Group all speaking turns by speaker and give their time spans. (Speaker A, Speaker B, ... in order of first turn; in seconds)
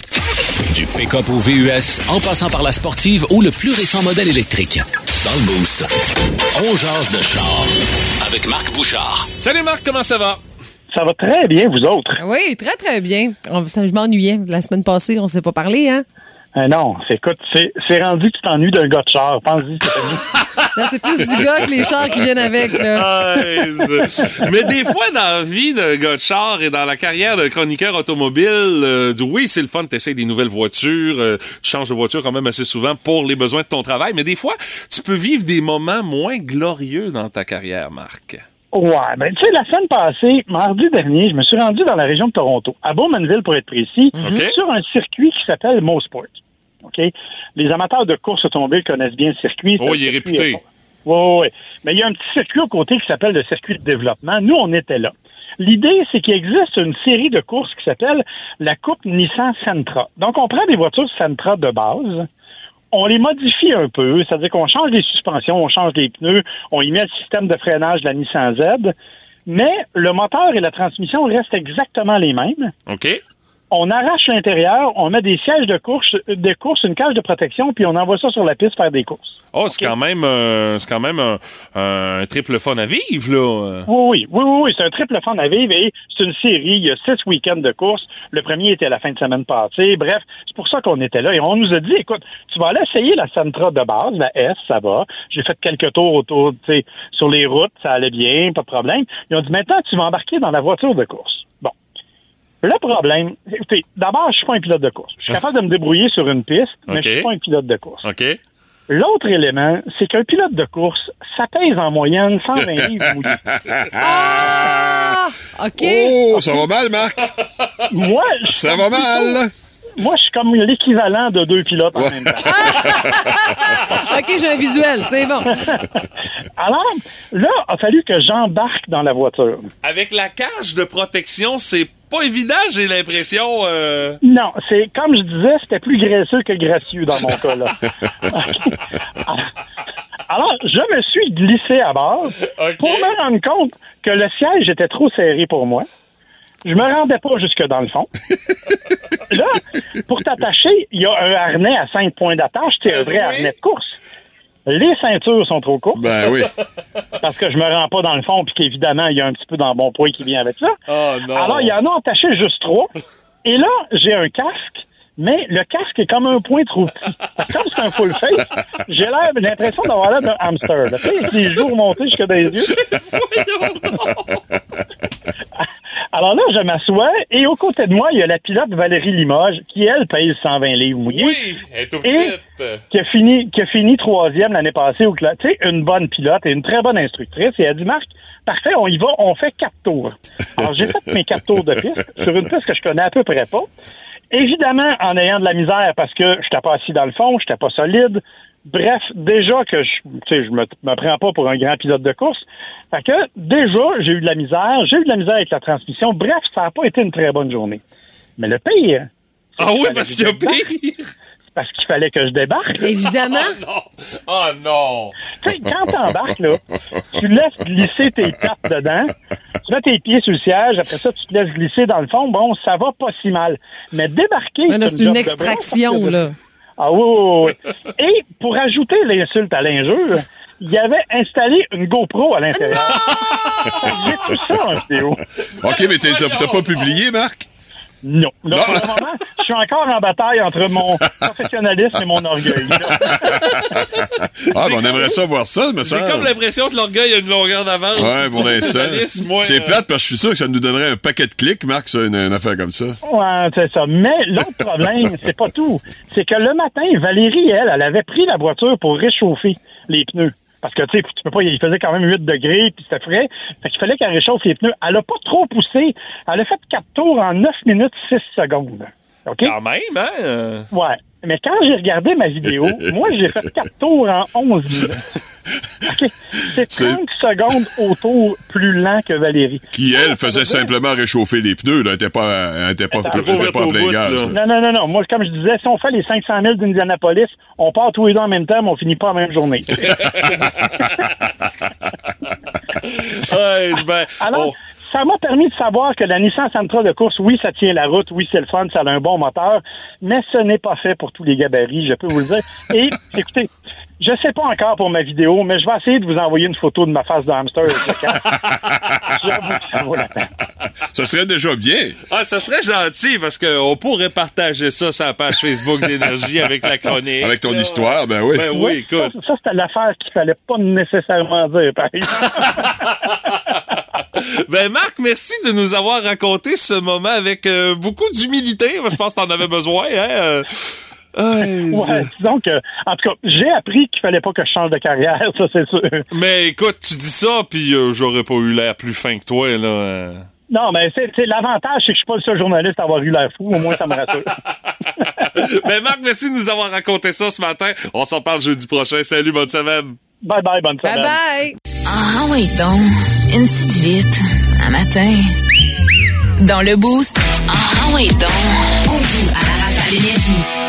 Speaker A: 0.7-5.9, 6.5-9.3
Speaker B: 9.4-10.4, 20.3-21.6, 22.8-38.4, 44.2-44.5, 49.8-50.6, 72.9-73.2, 79.5-83.9, 106.9-107.3, 108.0-108.4, 129.8-134.2, 142.4-143.1, 152.9-153.5, 160.9-161.7, 172.7-174.4, 181.1-182.8, 209.6-211.1, 213.0-215.1, 233.1-233.9, 235.6-237.0, 243.2-245.1, 245.8-249.8, 269.4-270.7, 283.1-284.3, 289.8-291.1, 292.7-294.5, 308.2-309.1, 312.1-319.1, 322.4-323.4, 324.1-330.5, 331.1-332.1, 336.1-340.2, 344.4-350.0
Speaker C: 10.9-12.2, 16.5-20.2, 38.7-62.3, 62.9-68.9, 69.5-72.7, 73.7-79.9, 83.9-101.7, 102.6-108.0, 108.9-113.4, 117.9-119.4, 120.0-122.7, 126.6-129.7, 134.2-137.7, 140.3-145.8, 146.6-148.1, 149.3-153.9, 154.7-156.0, 157.2-160.7, 161.3-162.9, 163.4-172.7, 176.1-181.4, 182.0-182.3, 182.9-193.7, 194.3-207.8, 208.4-209.1, 209.6-210.7, 211.5-212.8, 215.4-216.6, 217.1-219.1, 219.6-226.2, 226.8-233.2, 233.8-235.2, 238.0-243.3, 253.0-269.5, 270.7-275.0, 275.9-280.7, 282.9-283.4, 284.3-290.1, 294.2-308.2, 309.1-310.3, 318.5-322.8, 331.6-336.0, 340.5-344.3, 350.2-351.2
Speaker D: 12.2-16.0, 20.8-23.1, 114.0-116.2, 122.5-125.6, 212.8-213.6, 224.7-226.3, 350.8-351.6
Speaker E: 112.6-115.1, 115.8-117.3, 118.5-119.5, 121.9-123.3, 155.9-156.5, 233.8-234.3, 235.6-237.4, 238.5-239.0, 241.0-241.3, 242.5-246.3, 247.9-253.0, 272.6-272.9, 276.7-277.0, 279.7-284.4, 310.9-312.0, 317.2-318.5
Speaker F: 351.8-355.3, 356.4-360.4